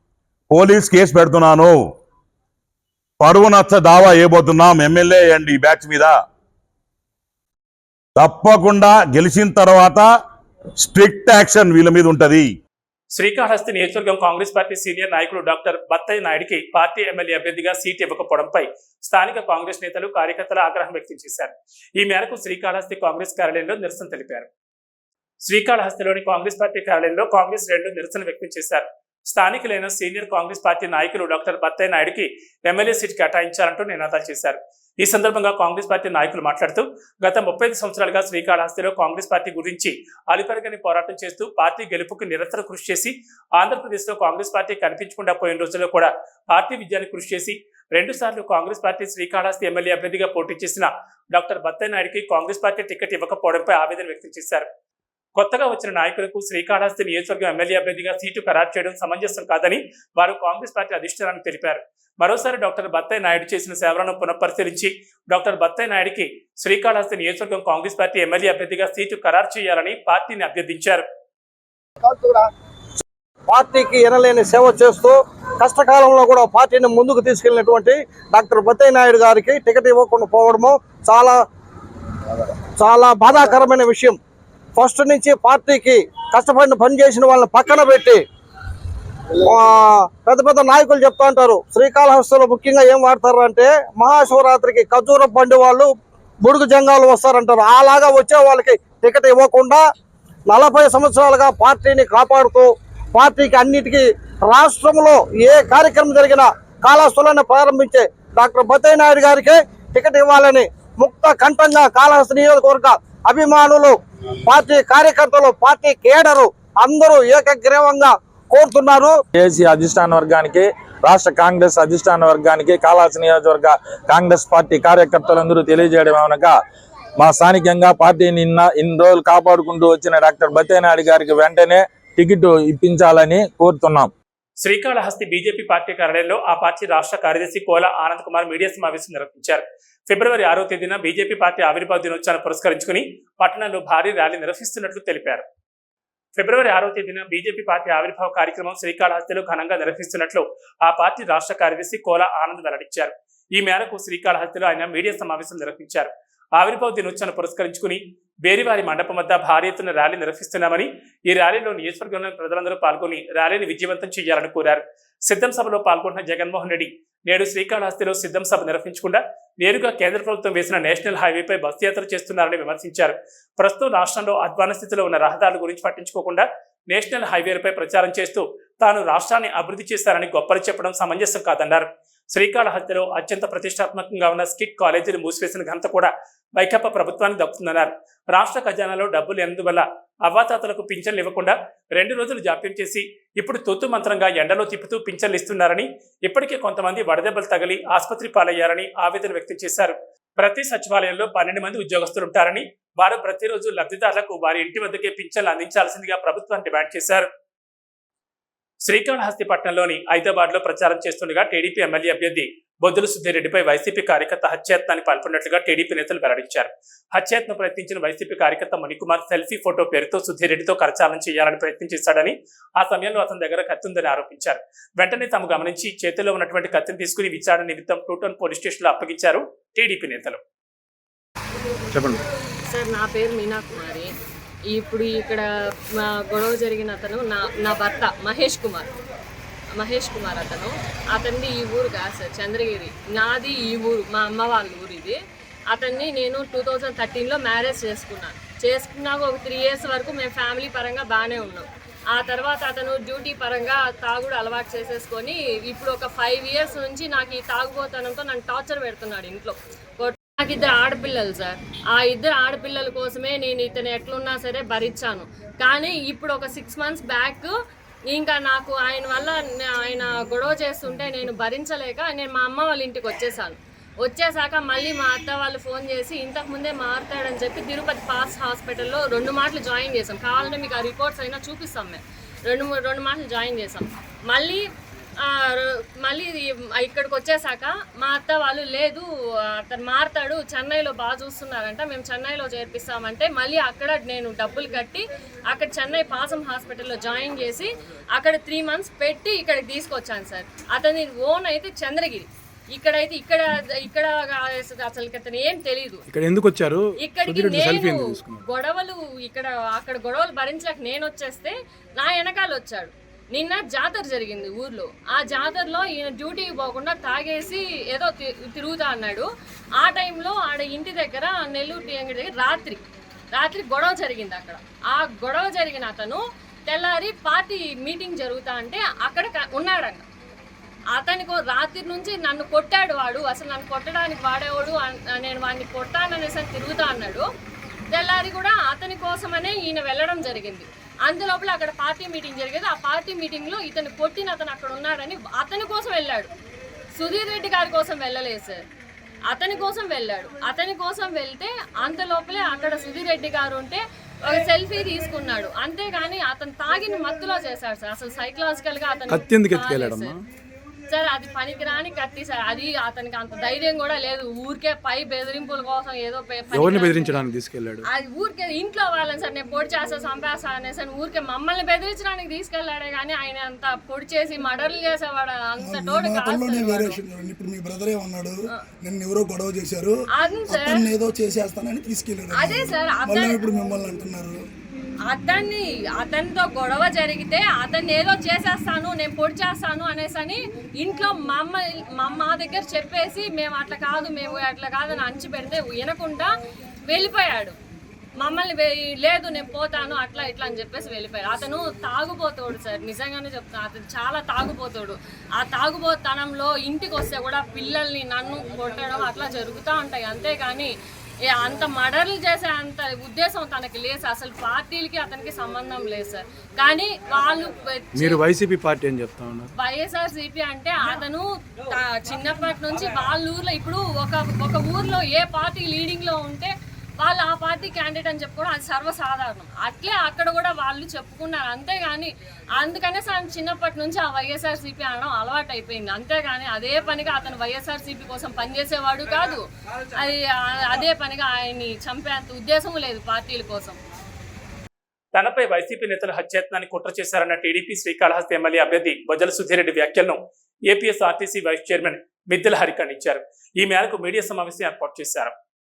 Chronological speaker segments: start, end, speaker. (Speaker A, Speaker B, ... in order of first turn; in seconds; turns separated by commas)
Speaker A: 0.5-1.8, Speaker A: 3.2-6.2, Speaker A: 8.2-10.1, Speaker A: 10.8-12.5, Speaker B: 13.2-24.5, Speaker B: 25.4-54.7, Speaker B: 55.4-71.1, Speaker C: 72.0-72.5, Speaker C: 73.5-81.4, Speaker C: 82.8-84.2, Speaker C: 84.8-88.2, Speaker C: 89.4-95.9, Speaker C: 96.4-99.8, Speaker C: 100.5-119.2, Speaker D: 119.3-126.6, Speaker D: 127.2-134.1, Speaker B: 134.6-145.4, Speaker B: 146.4-207.3, Speaker B: 208.8-230.4, Speaker E: 231.9-232.2, Speaker F: 232.7-234.1, Speaker F: 234.7-235.4, Speaker F: 236.0-239.0, Speaker F: 239.7-267.5, Speaker F: 268.1-284.7, Speaker F: 285.2-306.1, Speaker E: 306.1-308.4, Speaker F: 307.0-319.3, Speaker F: 319.8-322.8, Speaker F: 323.4-330.1, Speaker F: 330.9-337.3, Speaker F: 337.9-346.3, Speaker F: 347.0-348.6, Speaker F: 349.3-360.1, Speaker E: 359.1-360.2, Speaker F: 360.9-367.2, Speaker E: 366.5-367.9, Speaker F: 367.9-377.0, Speaker G: 375.6-380.0, Speaker F: 380.1-380.9, Speaker G: 380.5-384.4, Speaker F: 382.3-383.4, Speaker F: 385.1-396.3, Speaker F: 396.9-397.6, Speaker F: 398.2-410.7, Speaker F: 411.3-418.2, Speaker E: 418.0-419.5, Speaker F: 419.6-443.8, Speaker B: 445.1-455.3